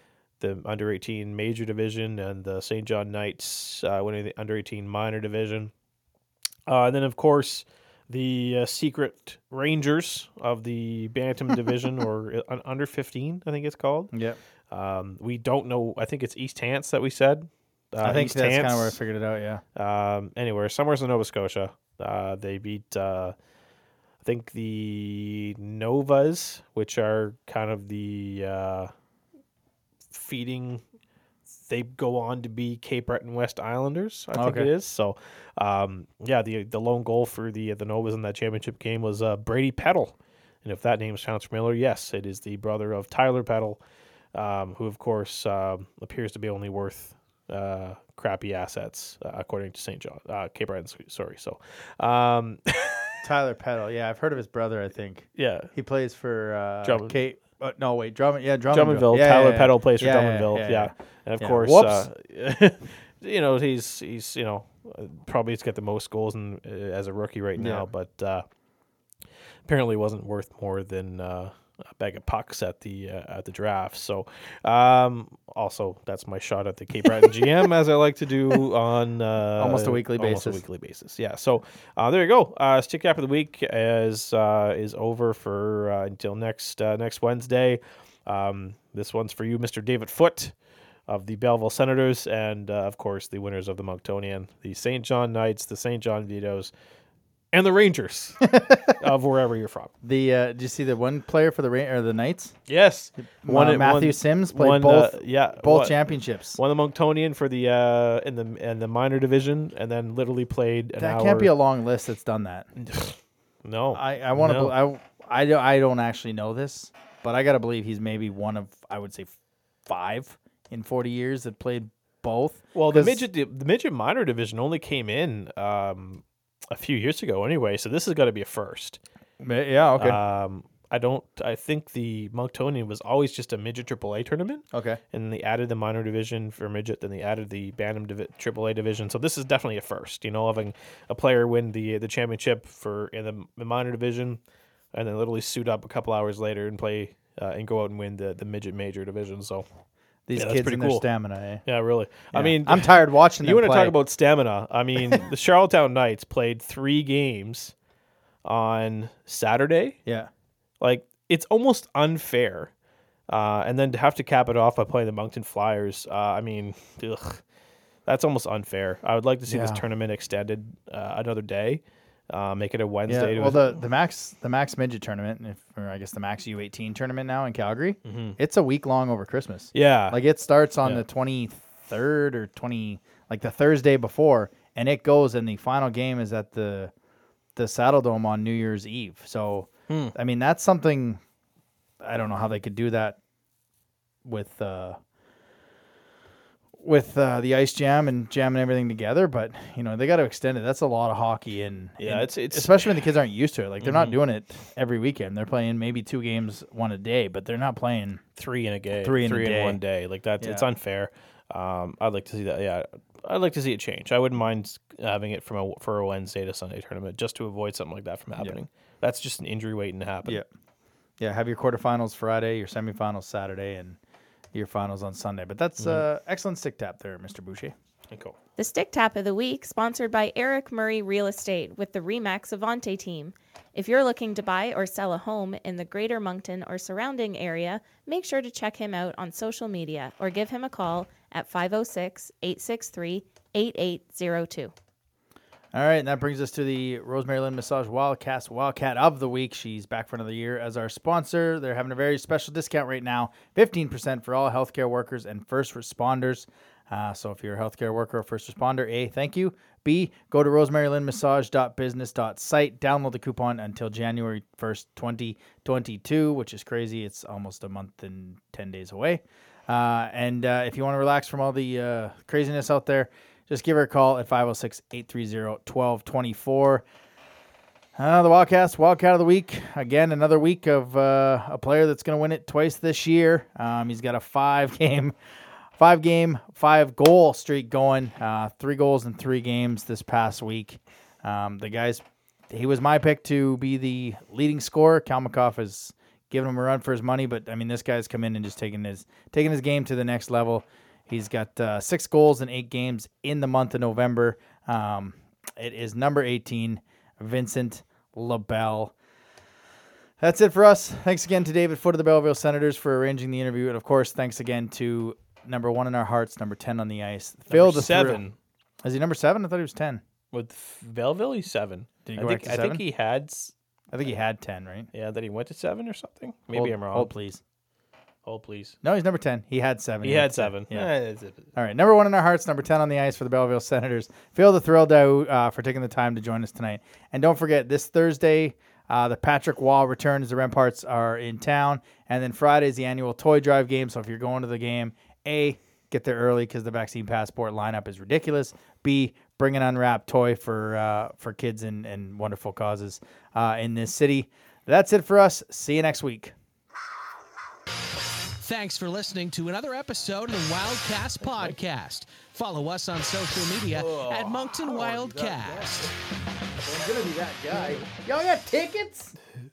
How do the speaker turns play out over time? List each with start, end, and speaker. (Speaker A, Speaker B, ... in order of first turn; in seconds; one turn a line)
Speaker A: 0.4-5.7
Speaker A: 6.7-14.1
Speaker B: 14.1-14.4
Speaker A: 14.7-19.0
Speaker B: 18.0-19.6
Speaker A: 19.8-23.3
Speaker A: 24.2-28.9
Speaker A: 30.1-30.8
Speaker A: 31.7-43.8
Speaker B: 34.3-34.7
Speaker A: 44.3-53.1
Speaker B: 53.2-62.1
Speaker A: 55.4-55.7
Speaker A: 56.8-57.2
Speaker A: 58.7-68.5
Speaker B: 67.6-67.9
Speaker A: 69.7-90.6
Speaker B: 79.6-80.6
Speaker A: 91.1-96.7
Speaker A: 97.5-99.9
Speaker B: 98.5-98.9
Speaker B: 100.0-102.6
Speaker A: 102.7-106.0
Speaker B: 103.2-106.6
Speaker A: 106.5-111.5
Speaker B: 111.0-112.7
Speaker A: 112.8-114.7
Speaker B: 113.9-119.3
Speaker B: 119.9-123.2
Speaker A: 122.7-129.0
Speaker B: 129.4-130.2
Speaker A: 130.0-144.4
Speaker B: 134.7-135.0
Speaker A: 144.9-149.7
Speaker B: 150.3-151.7
Speaker A: 150.3-151.1
Speaker A: 151.7-157.8
Speaker B: 152.3-153.9
Speaker A: 158.4-160.0
Speaker A: 160.8-162.7
Speaker A: 163.3-167.4
Speaker A: 168.1-173.8
Speaker B: 169.5-169.8
Speaker B: 173.1-186.9
Speaker A: 178.1-178.4
Speaker A: 179.7-180.2
Speaker B: 187.6-191.2
Speaker A: 189.9-190.2
Speaker B: 192.0-193.2
Speaker B: 194.2-195.0
Speaker B: 196.8-208.2
Speaker A: 202.0-202.8
Speaker A: 203.8-204.2
Speaker A: 208.4-220.4
Speaker B: 209.0-209.8
Speaker B: 210.4-210.7
Speaker B: 221.2-224.0
Speaker B: 224.5-227.7
Speaker A: 225.8-226.0
Speaker A: 228.1-228.4
Speaker C: 228.6-244.7
Speaker B: 245.7-276.8
Speaker B: 278.0-285.1
Speaker B: 285.8-308.9
Speaker B: 310.2-318.2
Speaker A: 317.5-318.4
Speaker B: 318.8-320.0
Speaker A: 320.3-323.5
Speaker B: 322.1-322.8
Speaker B: 323.9-324.9
Speaker A: 324.9-327.1
Speaker B: 326.5-327.4
Speaker A: 328.3-328.8
Speaker B: 328.8-330.9
Speaker A: 330.0-331.5
Speaker B: 331.5-356.3
Speaker D: 358.4-365.9
Speaker A: 361.2-361.6
Speaker A: 363.8-364.5
Speaker B: 364.8-365.5
Speaker B: 366.6-369.1